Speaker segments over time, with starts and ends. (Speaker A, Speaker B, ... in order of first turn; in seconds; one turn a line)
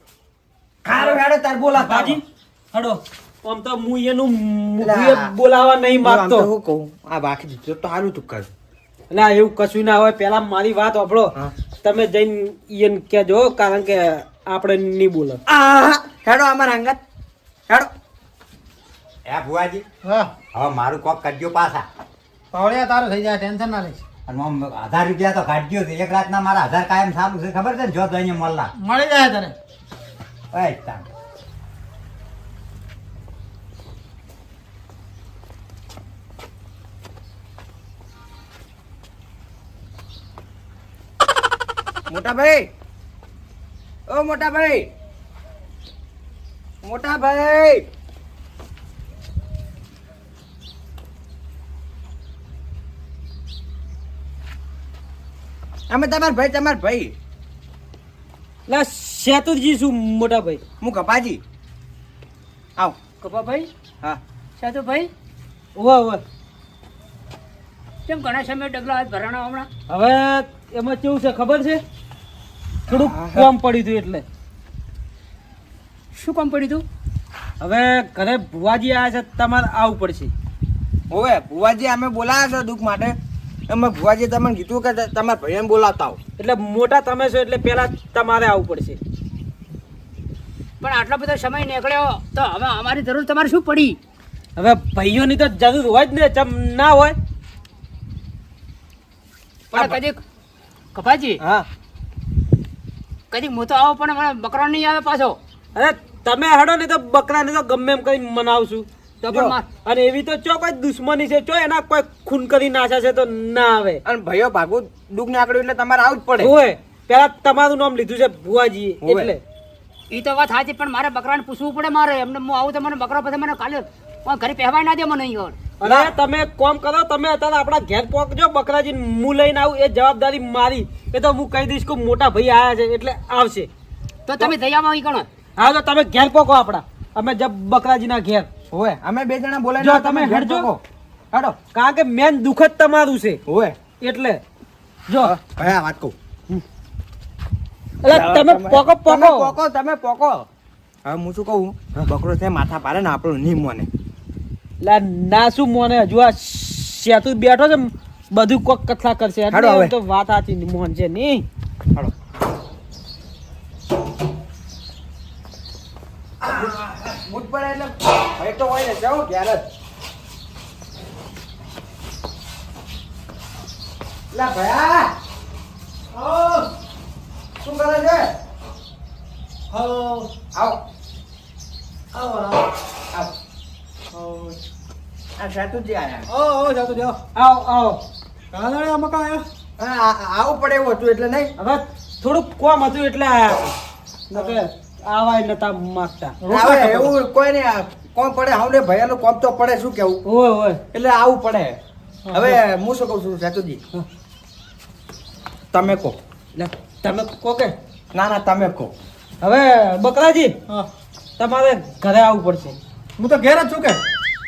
Speaker A: 0.8-2.2
Speaker B: 1.8-6.5
Speaker A: 4.8-5.3
Speaker A: 6.0-8.5
Speaker B: 9.1-15.4
Speaker A: 15.5-17.0
Speaker C: 19.3-19.9
Speaker D: 20.0-20.3
Speaker C: 20.5-21.9
Speaker D: 22.5-24.0
Speaker C: 24.3-28.7
Speaker D: 28.8-29.5
Speaker C: 30.5-31.1
Speaker A: 42.1-42.7
Speaker A: 44.1-44.9
Speaker A: 46.8-47.9
Speaker A: 55.9-57.1
Speaker B: 58.7-60.6
Speaker A: 60.8-61.4
Speaker E: 63.2-63.7
Speaker E: 64.6-65.1
Speaker B: 65.8-66.2
Speaker E: 68.1-69.7
Speaker B: 69.9-71.8
Speaker B: 72.9-74.2
Speaker A: 72.9-73.5
Speaker E: 76.2-76.8
Speaker B: 77.6-80.3
Speaker A: 81.1-83.2
Speaker A: 83.7-86.2
Speaker B: 86.4-89.0
Speaker E: 90.8-94.0
Speaker B: 94.6-97.2
Speaker E: 99.7-100.2
Speaker A: 99.7-100.0
Speaker E: 101.0-101.4
Speaker A: 101.4-101.7
Speaker E: 103.3-105.4
Speaker B: 105.8-108.9
Speaker E: 109.2-109.7
Speaker A: 109.3-109.6
Speaker B: 109.8-114.0
Speaker A: 114.0-116.5
Speaker B: 116.4-119.4
Speaker A: 119.0-119.3
Speaker E: 120.1-125.7
Speaker B: 125.8-133.7
Speaker A: 125.8-126.1
Speaker E: 134.3-135.3
Speaker B: 135.6-138.5
Speaker A: 138.7-140.8
Speaker B: 139.8-140.7
Speaker B: 141.7-143.4
Speaker A: 143.5-143.8
Speaker B: 144.0-144.4
Speaker B: 145.1-145.3
Speaker A: 145.2-146.1
Speaker B: 148.0-149.5
Speaker A: 148.1-150.5
Speaker A: 151.0-153.9
Speaker B: 154.8-161.5
Speaker A: 159.5-159.9
Speaker A: 166.4-169.7
Speaker A: 174.3-175.1
Speaker F: 176.1-176.7
Speaker A: 177.6-178.3
Speaker F: 179.7-180.3
Speaker A: 180.5-180.8
Speaker F: 182.1-182.7
Speaker F: 184.1-184.6
Speaker A: 185.4-186.3
Speaker F: 186.3-187.2
Speaker B: 187.3-188.0
Speaker F: 188.5-189.4
Speaker A: 189.8-191.5
Speaker B: 191.6-193.7
Speaker B: 194.3-196.4
Speaker F: 196.4-197.1
Speaker A: 196.5-200.2
Speaker B: 200.2-200.8
Speaker A: 200.9-201.8
Speaker F: 202.3-202.6
Speaker A: 202.3-203.8
Speaker A: 205.7-206.2
Speaker B: 206.6-207.8
Speaker A: 208.1-208.9
Speaker B: 209.4-210.6
Speaker B: 211.4-212.8
Speaker F: 213.2-214.0